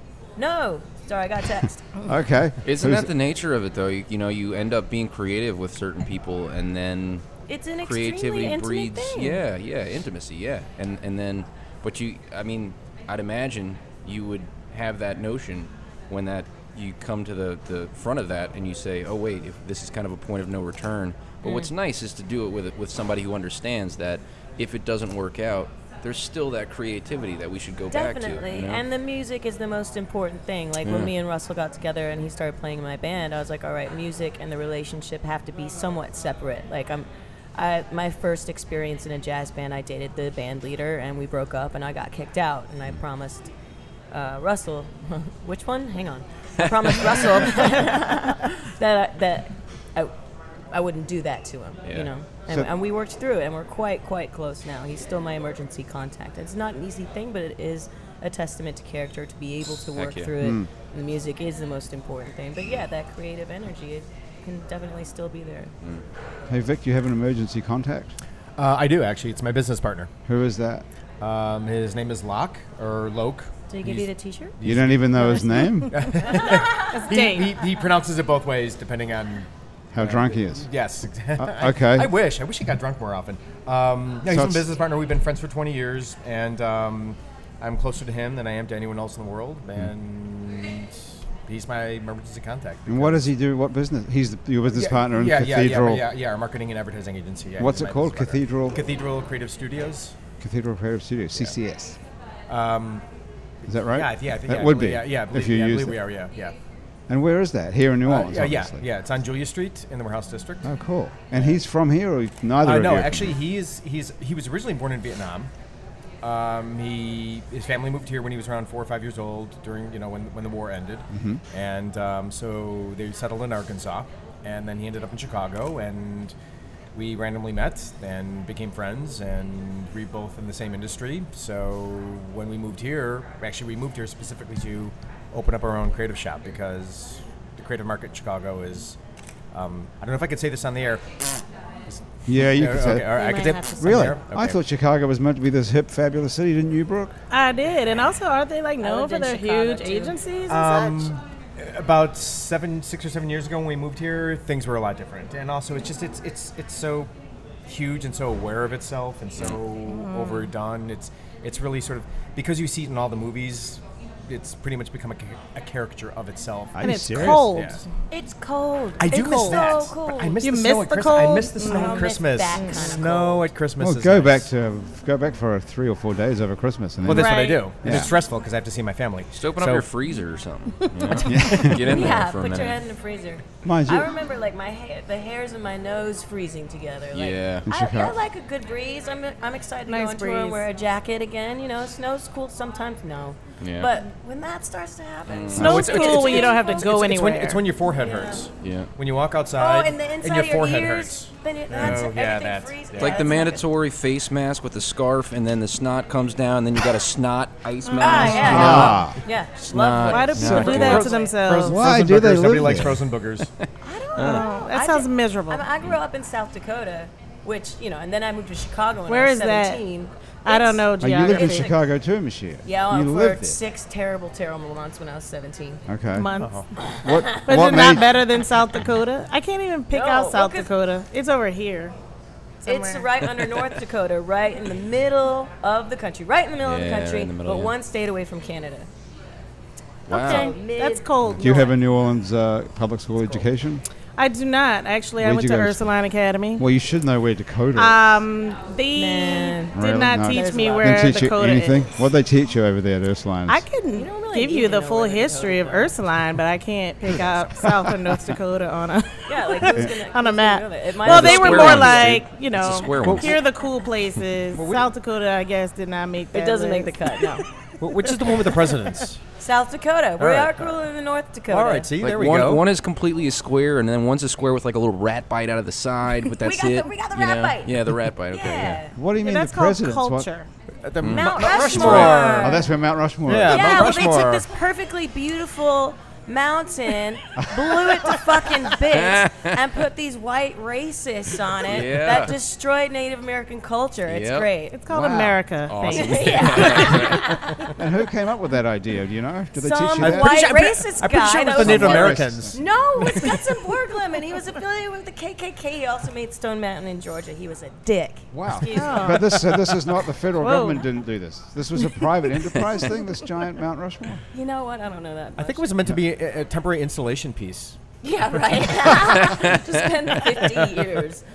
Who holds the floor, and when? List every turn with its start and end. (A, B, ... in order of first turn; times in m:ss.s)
0:00.4-0:01.8 A
0:02.0-0:03.1 B
0:02.6-0:07.3 C
0:07.5-0:09.4 A
0:07.8-0:28.8 C
0:21.4-0:21.7 A
0:27.9-0:43.5 A
0:30.8-0:31.1 C
0:44.1-0:50.2 A
0:50.7-1:05.7 A
1:00.0-1:00.3 C
1:00.4-1:00.7 B
1:06.5-1:08.2 B
1:08.6-1:10.1 D
1:10.3-1:10.9 B
1:11.2-1:14.1 D
1:13.7-1:14.6 A
1:14.6-1:15.1 D
1:14.6-1:16.2 B
1:15.9-1:33.2 D
1:16.9-1:17.6 E
1:19.9-1:20.7 B
1:21.4-1:22.1 B
1:24.2-1:24.7 B
1:32.9-1:36.1 B
1:34.7-1:40.2 D
1:37.6-1:38.8 B
1:40.4-1:42.0 B
1:42.5-1:43.0 D
1:43.6-1:46.0 B
1:43.9-1:46.6 D
1:47.1-1:48.8 B
1:48.0-1:50.7 D
1:50.6-1:53.4 B
1:52.6-1:55.5 D
1:56.2-2:06.4 D
2:01.1-2:01.4 B
2:06.9-2:19.0 D
2:19.5-2:24.6 D
2:22.3-2:23.2 B
2:23.1-2:23.8 A
2:23.8-2:27.2 B
2:27.3-2:31.1 E
2:28.8-2:30.2 A
2:30.5-2:37.1 D
2:37.7-2:47.8 D
2:39.9-2:40.5 E
2:46.8-2:47.5 B
2:46.8-2:47.8 E
2:48.1-2:50.4 A
2:49.0-2:54.4 D
2:49.1-2:49.8 E
2:50.4-2:53.0 E
2:51.6-2:53.5 A
2:53.8-2:58.1 B
2:57.0-2:59.9 D
2:57.1-2:57.7 E
2:59.3-3:02.8 C
3:01.0-3:01.3 E
3:01.2-3:01.9 B
3:01.6-3:17.0 A
3:03.6-3:04.1 B
3:07.1-3:07.6 C
3:07.6-3:08.2 B
3:09.9-3:10.6 E
3:13.6-3:13.9 C
3:15.3-3:15.9 C
3:15.6-3:17.7 E
3:15.6-3:15.8 B
3:15.6-3:23.2 D
3:17.9-3:18.5 A
3:18.6-3:18.9 C
3:19.6-3:23.7 A
3:23.0-3:29.0 C
3:27.8-3:29.0 E
3:28.0-3:31.4 A
3:28.4-3:29.2 B
3:29.6-3:31.2 C
3:30.0-3:31.8 E
3:30.6-3:33.5 D
3:31.6-3:33.1 B
3:33.6-3:34.4 C
3:33.8-3:41.8 A
3:34.0-3:35.7 E
3:39.1-3:39.8 E
3:40.4-3:41.7 E
3:41.0-3:43.6 B
3:42.6-3:45.8 A
3:45.9-3:46.3 B
3:46.1-3:46.6 E
3:46.4-3:46.7 D
3:46.8-3:47.5 A
3:47.0-3:48.2 B
3:47.5-3:52.0 E
3:49.9-3:50.7 A
3:52.6-3:53.1 E
3:52.7-3:58.9 A
3:56.6-3:57.7 C
4:00.1-4:00.5 C
4:00.1-4:01.7 A
4:00.2-4:01.7 E
4:01.4-4:03.8 B
4:04.2-4:06.6 E
4:05.2-4:05.9 B
4:06.6-4:08.0 B
4:07.8-4:11.8 E
4:08.9-4:11.3 A
4:09.8-4:13.6 B
4:13.5-4:27.4 E
4:13.9-4:15.9 A
4:19.3-4:22.2 A
4:21.0-4:23.4 C
4:23.0-4:23.3 D
4:24.5-4:24.9 D
4:26.3-4:27.4 A
4:27.8-4:29.2 D
4:28.0-4:29.0 E
4:29.4-4:31.9 A
4:30.2-4:30.8 D
4:31.5-4:32.7 D
4:32.0-4:38.8 C
4:36.4-4:37.8 A
4:38.3-4:39.0 A
4:38.9-4:40.3 B
4:39.2-4:40.5 E
4:40.8-4:42.6 D
4:41.0-4:42.2 C
4:41.1-4:42.7 A
4:41.7-4:43.8 B
4:43.3-4:44.5 D
4:43.4-4:54.8 A
4:48.9-4:49.6 C
4:51.7-4:52.3 C
4:54.1-4:54.5 C
4:54.7-4:57.2 E
4:54.9-4:55.4 B
4:55.7-4:57.4 C
4:55.8-4:57.5 A
4:57.7-5:00.4 B
4:59.6-5:09.4 A
5:00.0-5:03.5 D
5:01.6-5:02.6 B
5:08.3-5:14.2 B
5:08.7-5:09.9 E
5:10.4-5:10.9 E
5:14.3-5:15.7 A
5:15.4-5:17.8 D
5:18.0-5:21.2 A
5:18.9-5:20.7 C